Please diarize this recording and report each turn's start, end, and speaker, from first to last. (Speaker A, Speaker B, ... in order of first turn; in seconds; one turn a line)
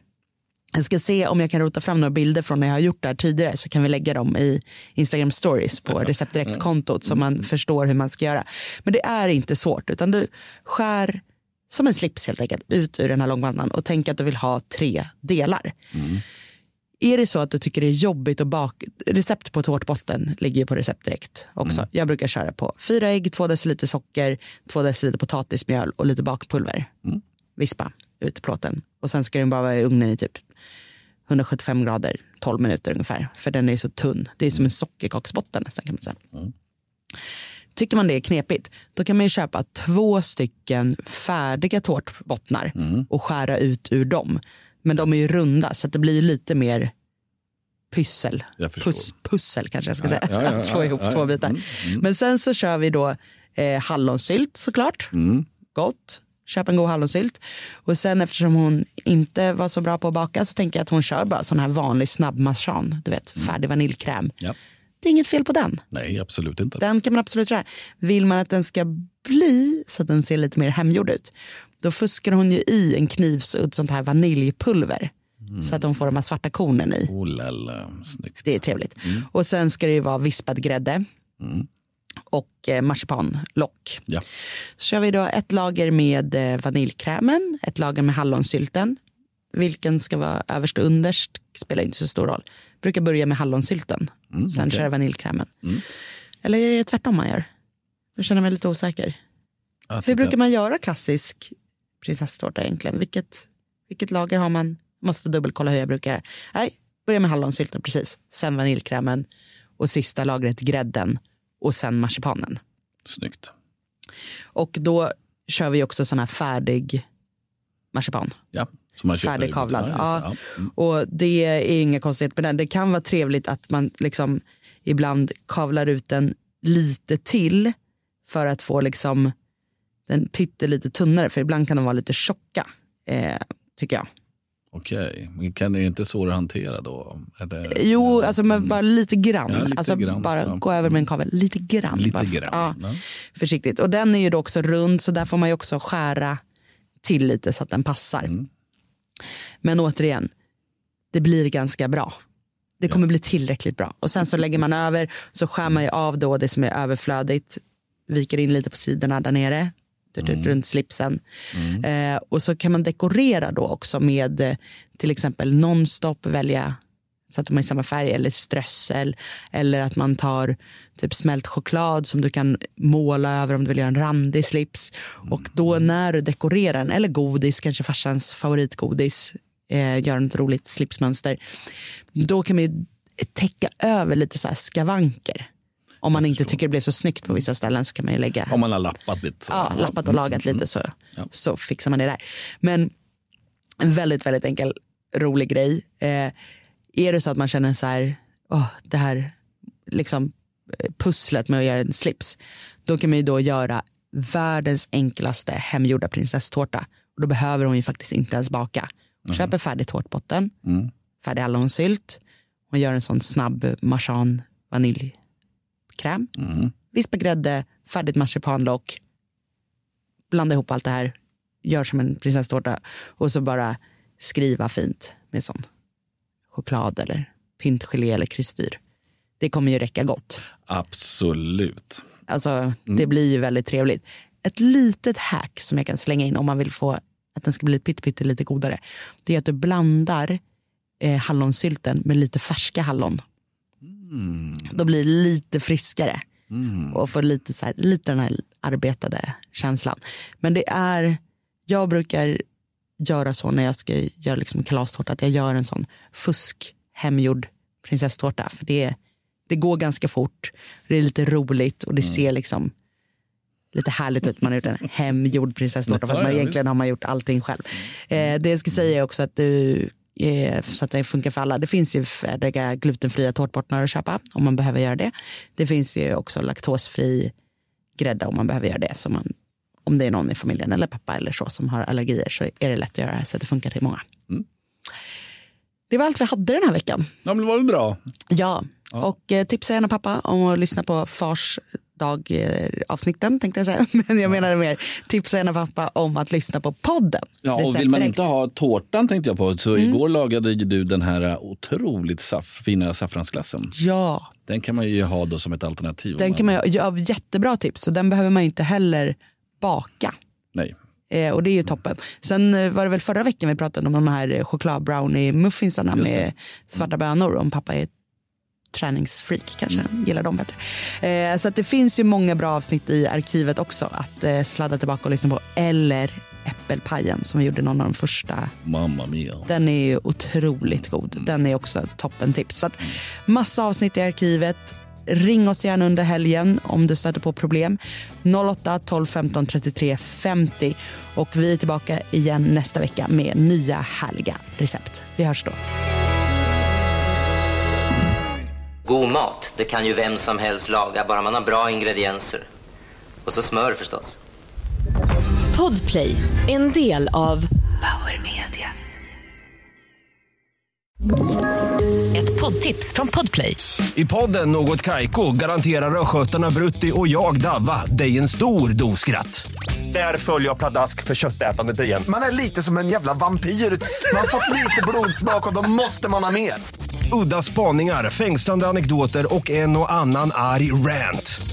Speaker A: 0.7-15.7
Speaker B: 15.9-16.2
Speaker A: 17.0-26.9
Speaker A: 27.6-30.4
Speaker A: 31.3-36.2
Speaker A: 37.7-46.9
Speaker A: 47.9-55.1
Speaker B: 48.6-49.1
Speaker B: 50.0-52.0
Speaker B: 55.1-55.4
Speaker A: 55.7-64.3
Speaker A: 65.0-65.8
Speaker B: 65.9-66.8
Speaker A: 66.8-77.1
Speaker B: 77.1-78.5
Speaker A: 78.4-81.0
Speaker B: 81.4-81.7
Speaker A: 82.3-84.0
Speaker A: 84.8-89.0
Speaker A: 89.5-95.5
Speaker B: 94.3-94.8
Speaker A: 96.4-97.5
Speaker A: 98.2-99.2
Speaker B: 99.9-100.3
Speaker A: 100.0-109.3
Speaker A: 109.8-112.6
Speaker B: 113.1-113.5
Speaker A: 114.5-117.0
Speaker A: 117.9-118.4
Speaker B: 118.5-120.7
Speaker A: 119.2-127.7
Speaker A: 128.2-129.3
Speaker A: 130.1-134.1
Speaker B: 134.7-138.8
Speaker A: 137.7-142.8
Speaker B: 139.5-140.9
Speaker B: 141.9-143.0
Speaker A: 143.3-146.4
Speaker A: 147.0-148.3
Speaker A: 149.6-150.3
Speaker A: 151.1-152.1
Speaker A: 152.8-161.2
Speaker B: 160.2-160.5
Speaker B: 161.5-161.8
Speaker A: 161.8-166.8
Speaker A: 167.3-181.4
Speaker A: 182.2-185.5
Speaker A: 186.0-188.6
Speaker B: 188.5-190.6
Speaker A: 189.5-192.9
Speaker A: 193.8-196.3
Speaker A: 196.9-199.3
Speaker A: 199.9-210.5
Speaker A: 211.2-215.2
Speaker A: 215.9-216.3
Speaker A: 216.9-219.0
Speaker A: 220.3-225.6
Speaker A: 226.5-228.8
Speaker A: 229.4-230.4
Speaker B: 230.7-232.0
Speaker A: 232.3-240.4
Speaker A: 241.0-243.2
Speaker B: 243.8-244.7
Speaker A: 244.6-246.2
Speaker B: 246.5-246.9
Speaker A: 246.9-252.4
Speaker A: 253.0-258.9
Speaker A: 259.5-262.7
Speaker A: 263.7-277.3
Speaker B: 265.9-266.6
Speaker A: 277.9-279.3
Speaker A: 279.8-284.1
Speaker A: 285.9-287.1
Speaker B: 287.2-288.0
Speaker A: 288.3-298.2
Speaker B: 297.4-303.7
Speaker A: 303.7-304.3
Speaker B: 304.4-306.6
Speaker A: 306.2-310.1
Speaker A: 311.1-317.9
Speaker B: 315.9-316.3
Speaker A: 318.7-328.5
Speaker B: 328.6-329.5
Speaker A: 329.4-345.6
Speaker C: 348.8-352.4
Speaker C: 353.2-354.2
Speaker D: 355.5-358.7
Speaker D: 362.1-363.7
Speaker E: 363.9-372.1
Speaker F: 372.1-376.6
Speaker E: 377.1-381.4